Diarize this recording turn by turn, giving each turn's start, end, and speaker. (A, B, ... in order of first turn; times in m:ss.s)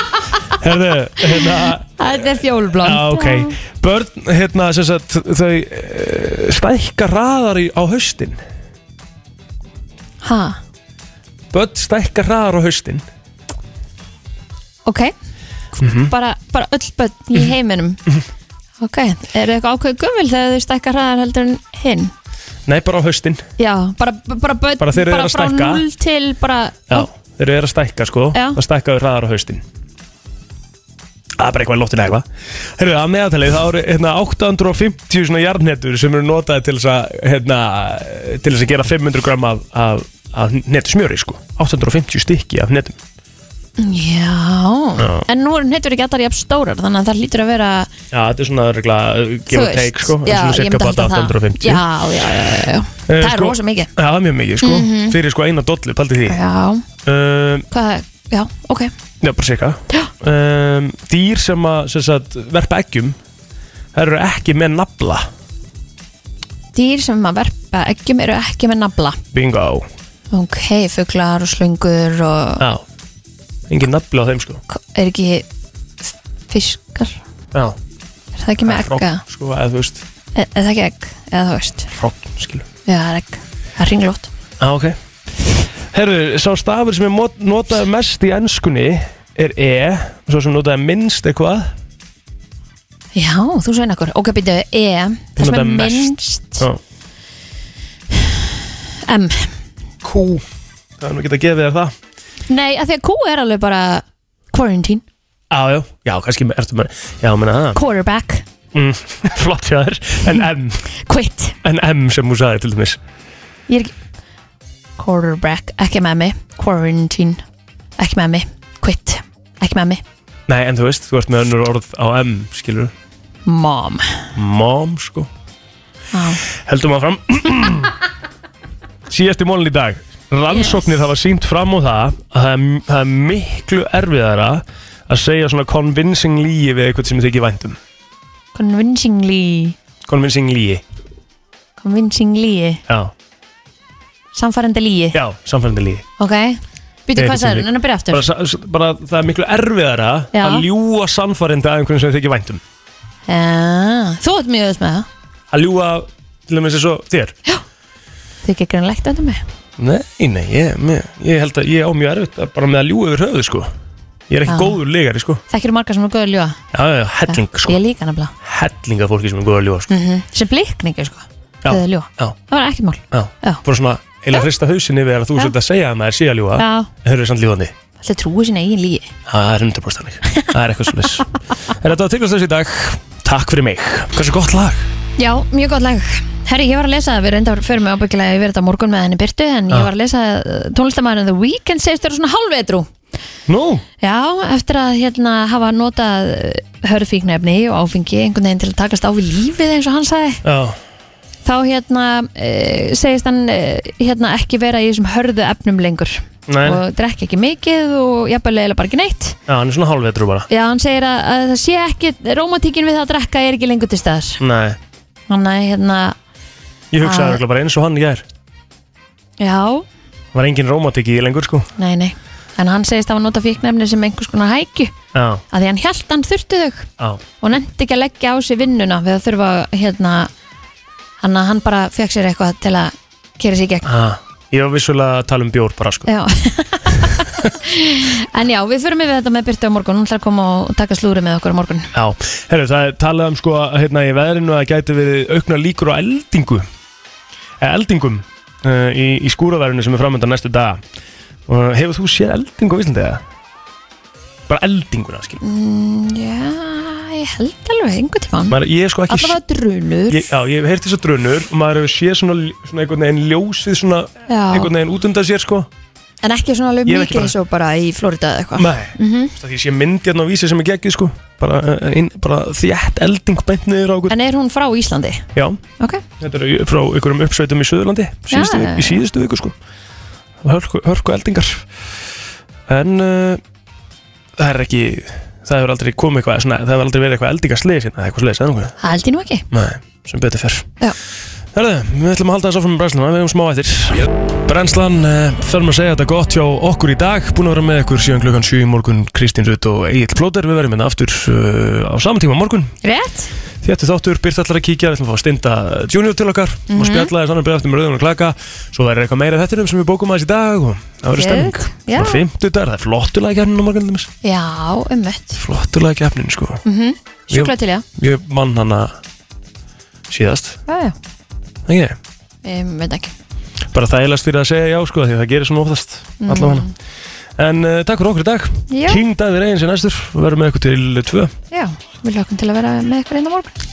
0:00.5-0:02.1 A
0:02.0-0:03.5 B
0:02.8-0:08.4 A
0:10.2-0:10.6 B
0:11.5-0:13.0 A
0:14.8-0:15.1 B
0:15.7-0:18.0 B
0:15.8-0:16.1 A
0:18.8-0:22.1 B
0:22.6-0:23.4 A
0:23.6-0:27.1 B
0:24.8-0:25.8 A
0:26.9-0:29.6 A
0:31.4-0:32.2 A
0:32.8-0:43.0 A
0:43.8-0:47.9 B
0:45.0-0:45.2 A
0:48.1-0:51.8 A
0:49.5-0:53.9 B
0:53.1-0:56.4 A
0:54.6-0:55.2 B
0:56.3-0:56.8 B
0:57.0-0:57.6 A
0:57.7-0:58.9 B
0:59.2-1:03.2 A
1:03.9-1:05.3 A
1:06.7-1:09.2 B
1:09.3-1:09.9 A
1:10.3-1:12.6 B
1:13.7-1:14.6 A
1:14.7-1:15.4 B
1:16.5-1:17.2 B
1:18.4-1:19.2 B
1:18.6-1:20.0 A
1:20.4-1:21.9 B
1:21.9-1:22.6 A
1:22.8-1:24.3 B
1:24.6-1:25.0 A
1:25.9-1:31.7 A
1:33.1-1:36.7 B
1:35.4-1:36.8 A
1:39.0-1:39.5 B
1:40.1-1:40.4 B
1:41.0-1:41.9 A
1:42.5-1:45.0 B
1:45.5-1:47.8 A
1:47.7-1:48.4 B
1:48.7-1:50.9 A
1:51.0-1:51.6 B
1:51.6-1:53.0 A
1:55.0-1:57.4 B
1:58.0-2:00.0 B
2:00.5-2:02.9 A
2:03.4-2:04.1 B
2:04.3-2:05.3 A
2:06.1-2:06.4 B
2:06.5-2:07.9 A
2:09.1-2:17.8 A
2:10.5-2:10.8 B
2:18.5-2:19.8 B
2:20.0-2:20.8 A
2:21.8-2:22.8 B
2:22.9-2:23.1 A
2:24.3-2:25.2 B
2:25.1-2:26.0 A
2:26.2-2:28.2 B
2:27.2-2:32.6 A
2:30.3-2:30.6 B
2:33.3-2:35.1 B
2:35.5-2:37.3 A
2:38.4-2:39.4 B
2:39.8-2:43.7 A
2:44.3-2:45.4 A
2:44.5-2:44.8 B
2:45.5-2:46.6 B
2:46.7-2:47.8 A
2:47.3-2:48.3 B
2:48.4-2:49.9 A
2:49.9-2:53.6 B
2:51.6-2:52.4 A
2:53.1-2:57.7 A
2:56.6-2:56.9 B
2:58.0-2:59.1 B
2:59.2-3:04.8 A
3:05.2-3:12.9 B
3:13.5-3:13.8 A
3:14.0-3:20.4 B
3:20.4-3:20.8 A
3:21.4-3:29.4 B
3:26.5-3:26.8 A
3:29.5-3:30.5 A
3:30.5-3:34.4 B
3:34.4-3:34.8 A
3:35.3-3:36.2 B
3:36.9-3:38.2 A
3:37.0-3:37.4 B
3:39.4-3:39.8 B
3:40.3-3:41.7 A
3:41.8-3:44.9 B
3:45.1-3:45.4 A
3:45.5-3:46.9 B
3:47.4-3:50.3 B
3:51.2-3:53.9 B
3:53.8-3:56.1 A
3:56.0-4:01.9 B
4:01.9-4:06.6 A
4:07.6-4:10.8 A
4:11.5-4:13.2 A
4:14.5-4:15.4 A
4:15.4-4:18.6 B
4:18.5-4:19.4 A
4:19.1-4:20.3 B
4:20.1-4:25.7 A
4:24.3-4:24.7 B
4:26.2-4:29.3 B
4:26.9-4:27.3 A
4:28.6-4:34.1 A
4:34.1-4:35.2 B
4:35.3-4:35.6 A
4:36.2-4:39.5 A
4:38.3-4:39.0 B
4:40.4-4:41.6 A
4:42.7-4:43.4 A
4:44.4-4:48.8 A
4:48.8-4:49.4 B
4:49.5-4:50.7 A
4:51.5-5:02.7 A
5:02.8-5:03.3 B
5:03.6-5:14.1 A
5:06.7-5:07.1 B
5:11.1-5:12.2 B
5:14.2-5:15.4 B
5:15.3-5:16.6 A
5:16.6-5:17.8 B
5:17.3-5:19.0 A
5:20.1-5:20.6 A
5:20.7-5:20.9 B
5:21.7-5:22.0 A
5:22.4-5:23.1 B
5:23.7-5:26.7 A
5:26.2-5:26.7 B
5:27.4-5:31.3 A
5:28.7-5:29.0 B
5:31.5-5:33.5 B